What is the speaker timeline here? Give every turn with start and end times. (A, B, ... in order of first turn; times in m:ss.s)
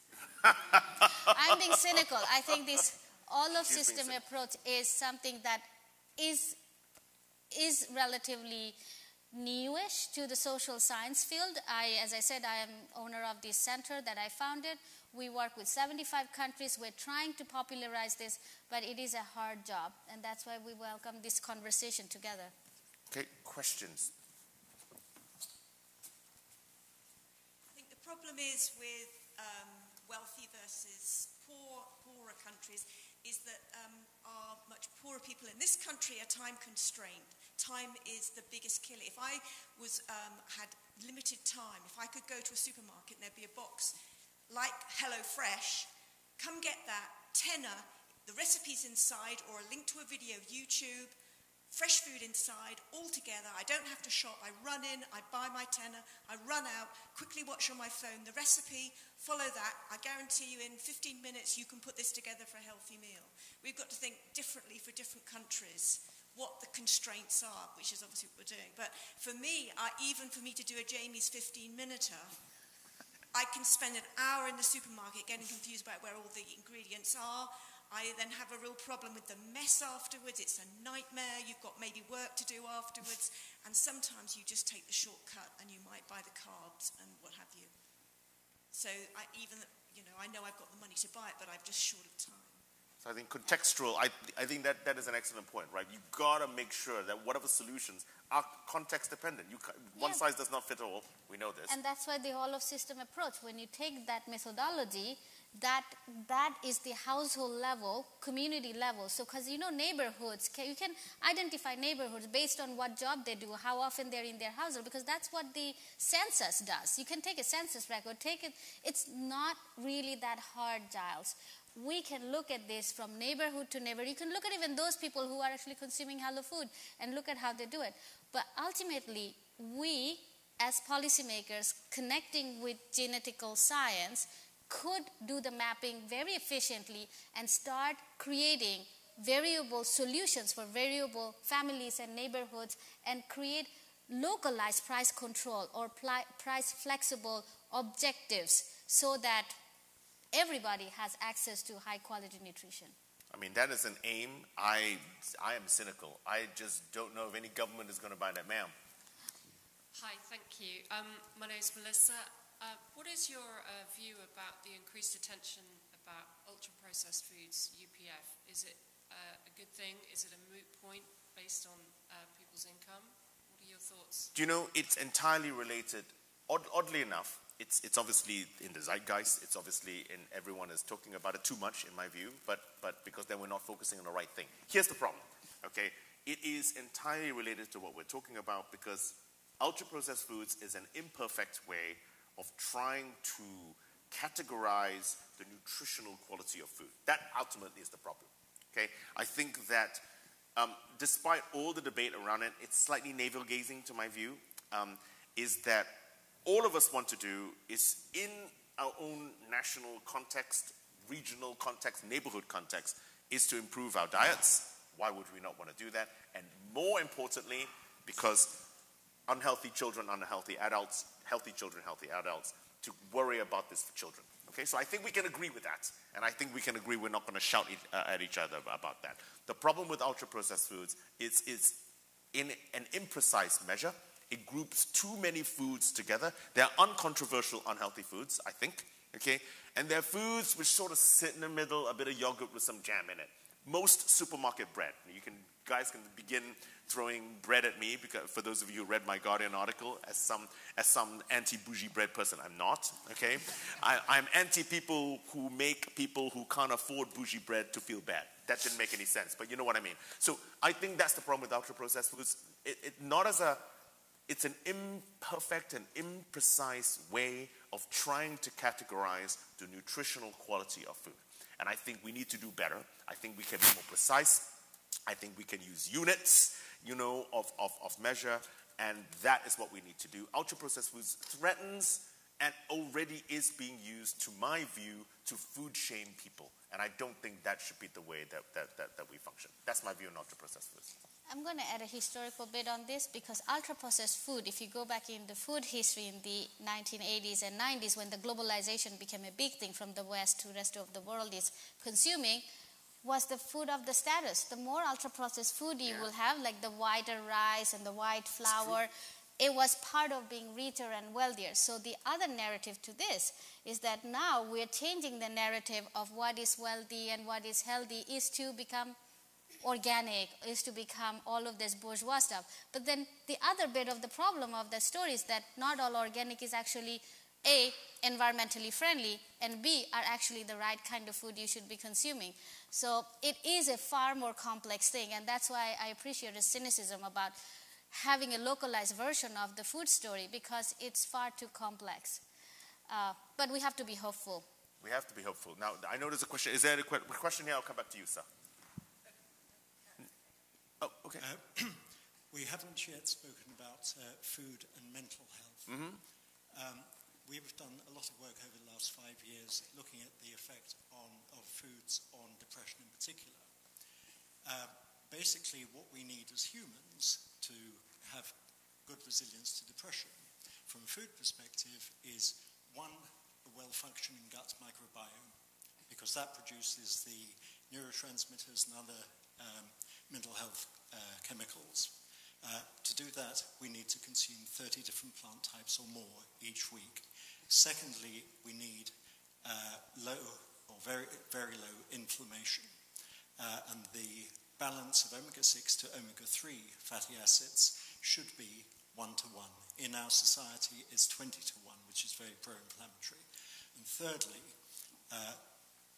0:00.4-0:01.3 A
0:01.2-0:05.6 B
0:03.6-0:04.2 A
0:06.2-0:06.6 B
0:07.5-0:08.8 B
0:09.3-0:22.5 B
0:23.1-0:24.1 A
0:27.7-0:44.0 C
0:44.5-0:51.2 C
0:51.7-1:12.4 C
1:13.3-1:27.7 C
1:28.7-1:32.6 C
1:33.0-1:41.8 A
1:40.0-1:40.2 B
1:41.7-2:29.6 B
2:30.3-2:32.9 B
2:33.3-2:38.7 A
2:39.9-2:54.3 D
2:54.3-3:20.0 A
3:20.6-3:38.7 A
3:39.3-3:51.8 A
3:52.3-4:23.6 A
4:24.3-4:34.6 A
4:35.1-4:50.9 A
4:51.3-5:02.4 B
5:03.0-5:19.0 B
5:19.6-5:37.4 B
5:37.9-5:42.2 B
5:42.9-5:44.4 B
5:44.8-5:48.2 A
5:50.8-5:51.2 A
5:51.2-5:55.7 E
5:55.7-5:56.0 A
5:56.5-6:03.5 E
6:04.4-6:15.4 E
6:15.9-6:32.7 E
6:33.4-6:44.5 E
6:45.1-6:45.4 E